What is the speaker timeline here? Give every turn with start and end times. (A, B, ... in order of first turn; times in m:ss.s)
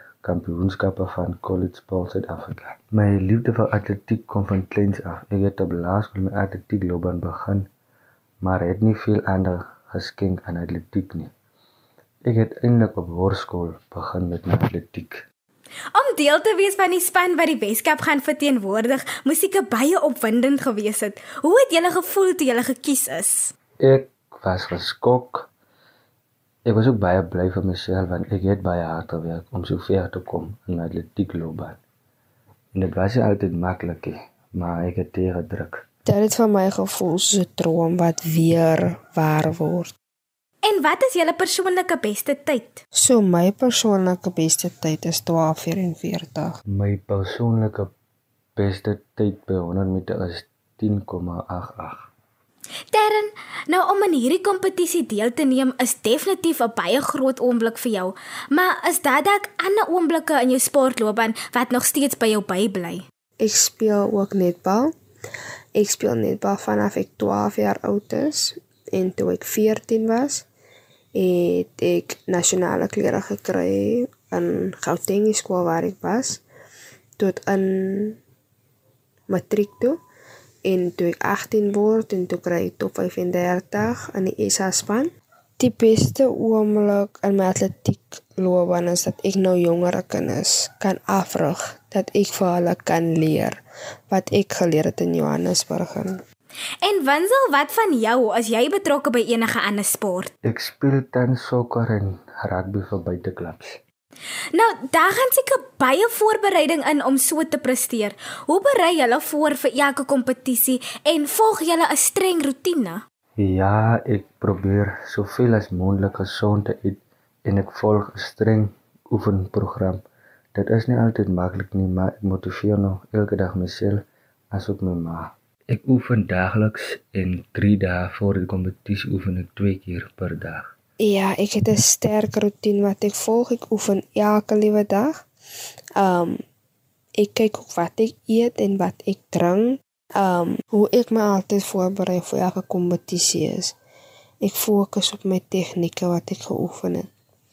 0:00.2-0:07.7 A
0:08.4-0:11.3 A
0:12.2-0:15.2 A
0:15.9-0:23.5 B
0:23.8-0:25.5 A
0:26.6-0:31.8 A
0:32.7-0:35.8 A
0:36.0-0:39.9 C
0:40.6-0:42.8 B
0:43.0-0:46.6 C
0:46.7-0:47.9 A
0:48.6-0:52.1 A
0:52.9-1:03.0 B
1:03.4-1:04.9 C
1:05.7-1:10.4 C
1:11.1-1:16.4 C
1:17.2-1:18.2 C
1:19.3-1:20.0 C
1:20.6-1:36.2 C
1:36.8-1:40.3 B
1:40.4-1:43.8 A
1:44.5-1:53.0 B
1:53.4-2:00.0 A
2:00.5-2:10.7 A
2:11.0-2:15.2 C
2:16.0-2:16.4 C
2:17.2-2:23.7 C
2:24.4-2:27.1 C